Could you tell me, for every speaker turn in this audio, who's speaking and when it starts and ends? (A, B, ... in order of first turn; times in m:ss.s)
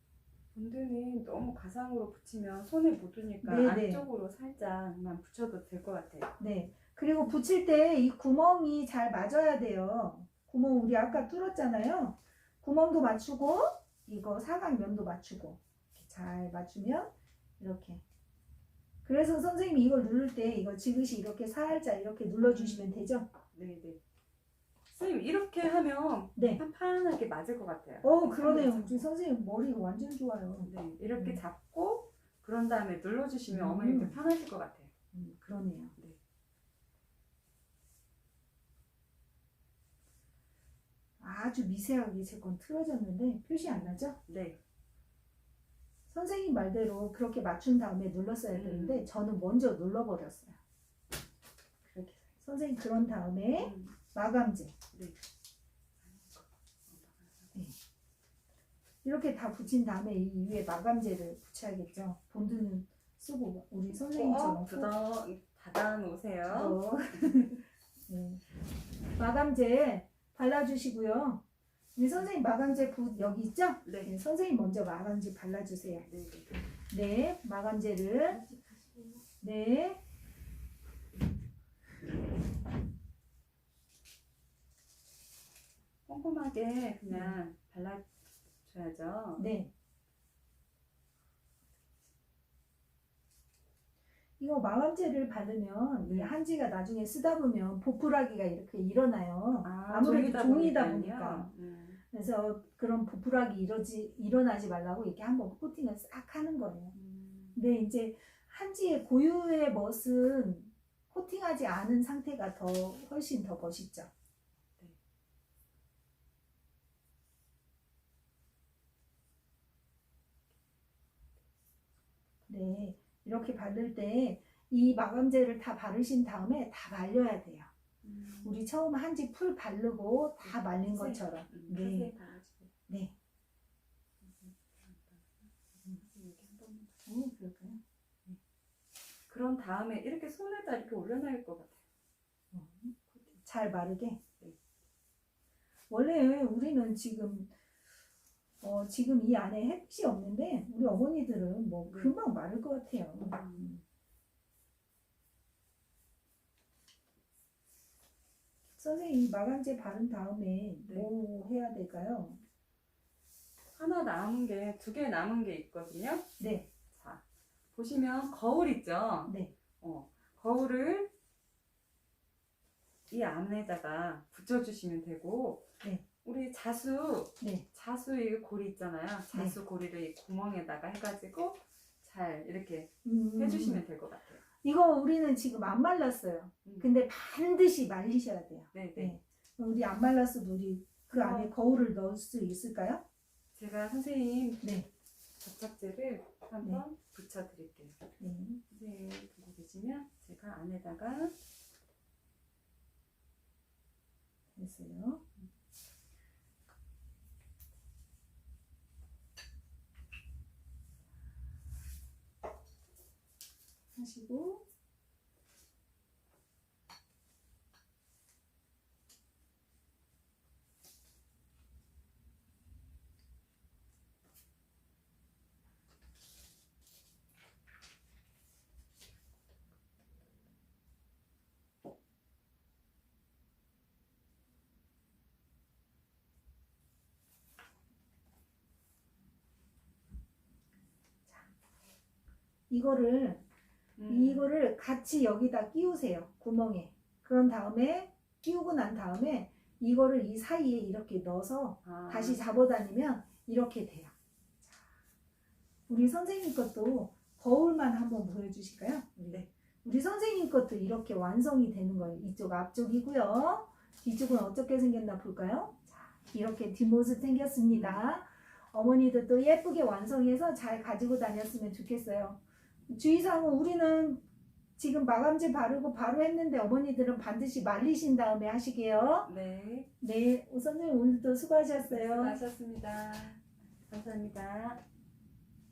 0:00.5-0:06.3 A
0:03.4-0:04.0 B
0:06.4-0:18.0 B
0:19.0-0:23.3 B
0:22.4-0:22.9 A
0:23.5-0:24.0 A
0:24.9-0:29.1 A
0:26.4-0:26.6 B
0:28.0-0:31.4 B
0:30.6-0:34.9 A
0:33.5-0:34.2 B
0:35.1-0:36.0 B
0:41.2-0:44.2 B
0:43.6-0:44.6 A
0:46.1-0:50.6 B
0:48.5-0:49.1 A
0:52.2-0:54.8 B
0:53.6-0:54.0 A
0:56.1-0:57.5 A
0:59.0-1:04.9 B
1:04.0-1:07.6 A
1:06.5-1:08.4 B
1:09.2-1:11.4 B
1:12.0-1:16.1 B
1:13.8-1:14.1 A
1:16.1-1:16.5 A
1:16.9-1:18.5 B
1:19.4-1:20.0 B
1:26.1-1:28.1 A
1:27.1-1:27.4 B
1:28.6-1:29.4 A
1:29.4-1:29.7 B
1:34.4-1:41.5 B
1:36.0-1:36.4 A
1:39.6-1:42.0 A
1:42.1-1:46.9 B
1:46.9-1:47.6 A
1:47.6-1:54.1 B
2:02.5-2:07.7 B
2:08.0-2:08.6 A
2:08.4-2:12.1 B
2:10.4-2:12.7 A
2:12.9-2:13.1 B
2:14.2-2:15.3 A
2:15.9-2:17.0 A
2:17.1-2:18.4 B
2:19.3-2:21.8 A
2:22.5-2:24.2 B
2:25.9-2:27.5 B
2:28.6-2:33.8 B
2:31.9-2:32.1 A
2:33.2-2:33.6 A
2:38.7-2:42.4 B
2:43.8-2:46.3 A
2:46.4-2:46.7 B
2:46.9-2:47.2 A
2:47.7-2:51.1 A
2:49.3-2:49.5 B
2:53.1-3:04.4 A
2:57.4-2:57.6 B
2:59.3-2:59.6 B
3:03.0-3:03.8 B
3:04.6-3:13.0 B
3:08.7-3:09.2 A
3:11.1-3:11.5 A
3:13.6-3:14.7 A
3:14.6-3:14.9 B
3:15.4-3:18.0 A
3:18.2-3:18.6 B
3:18.7-3:21.4 A
3:24.5-3:25.2 B
3:33.9-3:34.6 B
4:02.7-4:03.4 B
4:04.0-4:04.5 A
4:04.1-4:14.1 B
4:11.8-4:12.4 A
4:15.9-4:34.2 B
4:27.7-4:28.0 A
4:34.8-4:39.3 B
4:39.3-4:39.9 A
4:40.0-4:42.4 B
4:41.8-4:44.8 A